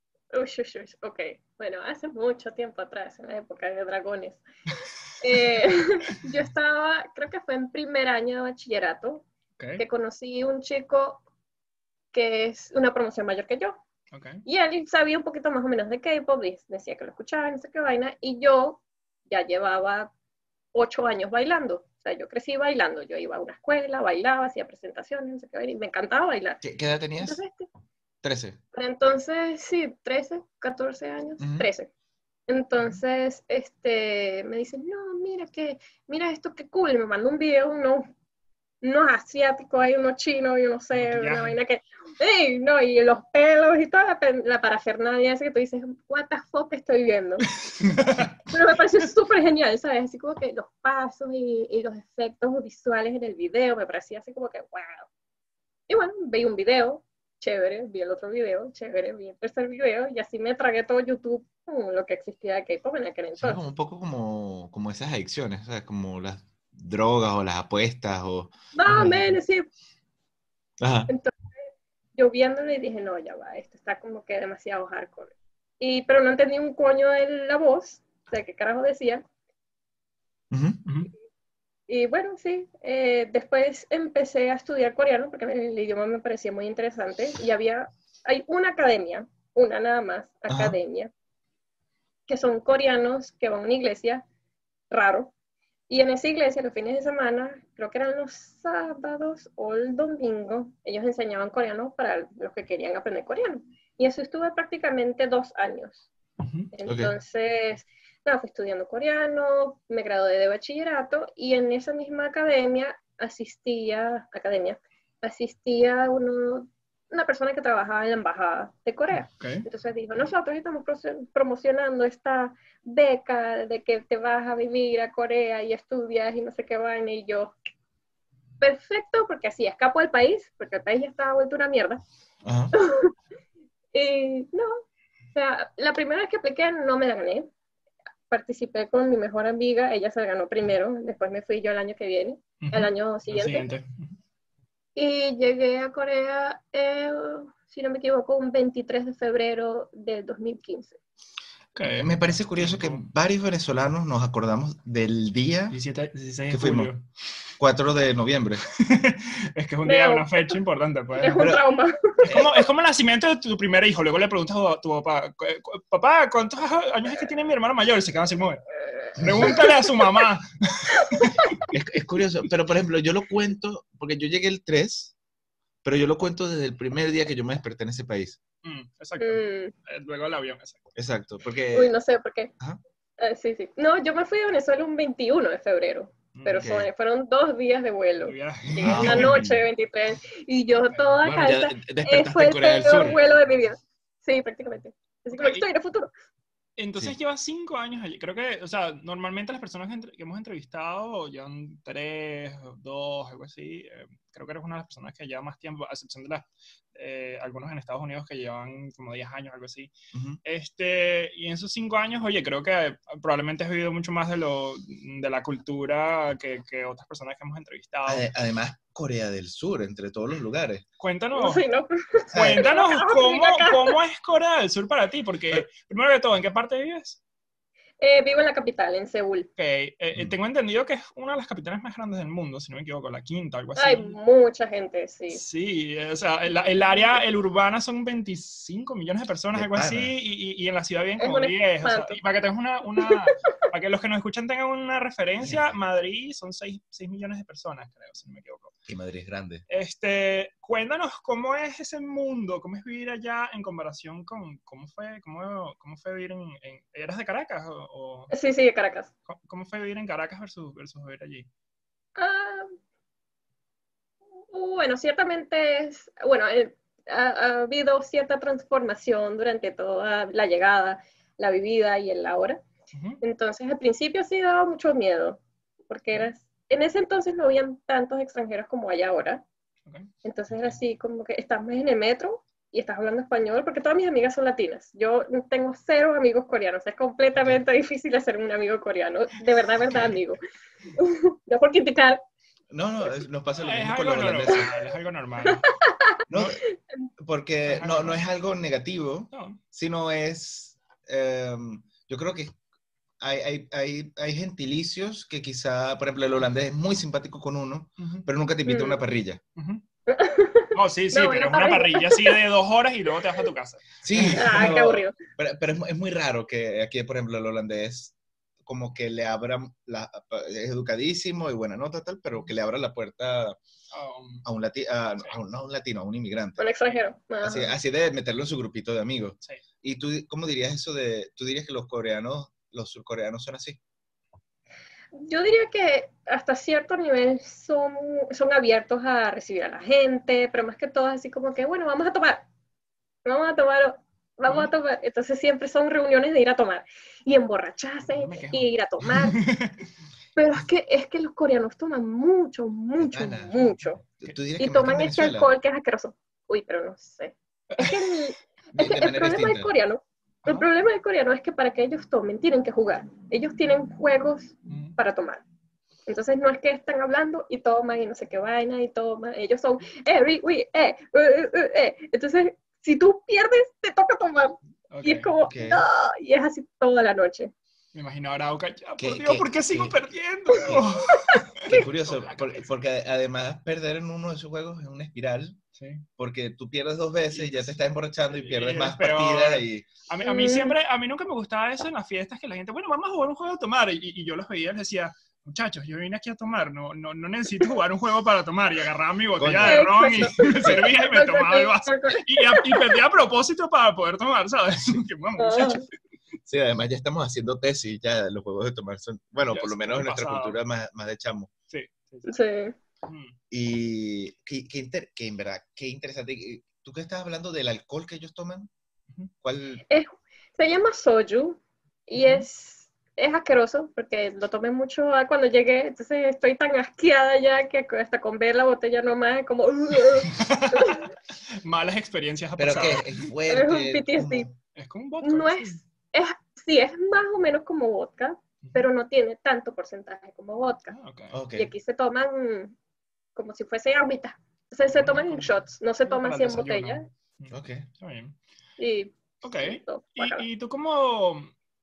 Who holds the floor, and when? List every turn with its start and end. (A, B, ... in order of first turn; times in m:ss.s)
0:00.3-0:04.4 A
0:05.2-0:09.3 A
0:09.6-0:09.8 B
0:09.8-0:11.2 A
0:12.1-0:13.8 A
0:14.1-0:14.4 B
0:14.5-0:20.1 A
0:20.7-0:26.6 A
0:26.6-0:27.4 C
0:27.2-0:27.7 A
0:28.2-0:28.6 C
0:28.7-0:31.9 A
0:31.4-0:31.7 C
0:32.5-0:38.1 A
0:38.8-0:47.5 A
0:40.9-0:41.6 B
0:47.6-0:48.4 B
0:48.5-0:55.1 A
0:55.9-1:03.6 A
1:03.4-1:09.4 C
1:08.8-1:09.7 A
1:10.8-1:11.1 C
1:11.1-1:11.4 A
1:12.2-1:19.2 A
1:20.5-1:20.8 C
1:21.9-1:31.1 A
1:30.5-1:30.8 C
1:32.3-1:34.2 A
1:34.9-1:35.3 A
1:35.9-1:46.0 A
1:46.4-1:46.7 B
1:46.7-2:07.6 A
1:46.8-1:47.1 C
1:59.3-1:59.7 B
2:08.6-2:12.0 A
2:12.4-2:12.8 C
2:12.7-2:13.1 A
2:13.9-2:14.7 A
2:15.3-2:17.5 A
2:18.3-2:23.7 A
2:22.6-2:24.1 B
2:25.0-2:31.0 A
2:31.8-2:33.0 B
2:31.9-2:35.8 C
2:35.7-2:37.0 B
2:36.5-2:36.9 C
2:37.6-2:38.6 C
2:38.7-2:41.5 B
2:39.8-2:40.6 A
2:41.2-2:42.7 A
2:42.2-2:48.6 B
2:49.2-2:49.6 C
2:49.2-2:51.3 B
2:49.5-2:49.9 A
2:51.0-2:51.6 A
2:51.7-2:55.1 C
2:55.8-2:58.4 C
2:58.6-3:00.8 B
2:59.2-2:59.7 A
3:01.0-3:01.9 C
3:01.7-3:02.5 A
3:03.2-3:16.1 A
3:06.3-3:06.7 B
3:06.6-3:06.9 C
3:08.2-3:09.5 B
3:08.7-3:09.7 C
3:10.9-3:11.2 B
3:11.2-3:13.2 C
3:12.9-3:13.2 B
3:15.3-3:15.7 B
3:16.8-3:29.9 B
3:30.1-3:30.4 C
3:30.4-3:38.2 B
3:38.1-3:40.8 C
3:41.0-3:41.6 B
3:41.4-3:44.0 A
3:42.3-3:42.6 C
3:42.3-3:47.2 B
3:48.0-3:49.5 A
3:49.6-3:54.1 B
3:53.8-3:55.4 A
3:55.3-4:08.7 B
3:59.5-4:00.1 C
4:01.2-4:02.2 A
4:05.4-4:05.8 C
4:08.9-4:09.6 C
4:09.7-4:18.3 B
4:18.3-4:19.1 A
4:19.3-4:21.5 B
4:22.2-4:22.7 A
4:24.5-4:32.6 A
4:32.9-4:33.2 B
4:33.2-4:39.4 A
4:40.2-4:50.4 A
4:50.9-4:52.2 A
4:52.7-4:54.8 C
4:53.5-4:55.7 B
4:55.5-4:56.2 A
4:56.3-4:56.6 C
4:57.2-5:02.5 C
4:57.7-4:58.2 B
4:59.3-4:59.6 B
5:03.2-5:09.4 C
5:08.0-5:08.3 B
5:08.7-5:09.0 A
5:09.6-5:09.8 B
5:10.1-5:12.4 A
5:10.7-5:14.5 B
5:14.0-5:18.2 C
5:14.3-5:15.2 A
5:18.7-5:23.6 C
5:23.9-5:24.4 B
5:24.4-5:26.6 C
5:26.6-5:27.7 A
5:27.4-5:33.8 C
5:35.1-5:42.5 A
5:43.2-5:49.4 A
5:48.0-5:49.8 B
5:50.4-5:54.0 A
5:53.0-5:53.6 C
5:54.2-5:55.5 C
5:54.6-6:05.4 A
5:57.7-5:58.0 B
5:58.7-5:59.7 C
6:04.7-6:05.0 B
6:06.1-6:17.5 A
6:14.9-6:15.3 B
6:15.4-6:15.8 C
6:17.9-6:22.7 B
6:19.0-6:20.0 C
6:20.6-6:20.9 C
6:21.1-6:21.9 A
6:21.7-6:25.6 C
6:25.8-6:26.0 B
6:26.2-6:29.9 C
6:27.3-6:27.8 B
6:28.3-6:45.9 B
6:30.2-6:30.8 A
6:39.4-6:40.8 C
6:39.6-6:43.0 A
6:45.4-6:45.9 A
6:46.5-6:51.5 C
6:49.5-6:50.6 B
6:51.7-6:52.3 B
6:52.3-6:52.8 A
6:53.1-6:53.3 B
6:53.5-6:58.7 C
6:59.4-6:59.8 C
6:59.9-7:11.1 A
7:02.2-7:02.5 B
7:10.3-7:13.3 B
7:12.6-7:14.6 C
7:13.5-7:14.5 A
7:14.8-7:15.8 B
7:15.2-7:20.9 A
7:20.9-7:21.3 B
7:21.3-7:21.7 C
7:21.6-7:22.8 A
7:23.4-7:27.1 A
7:24.9-7:25.5 B
7:26.0-7:28.4 B
7:27.5-7:27.9 C
7:28.8-7:30.4 A
7:29.4-7:31.5 B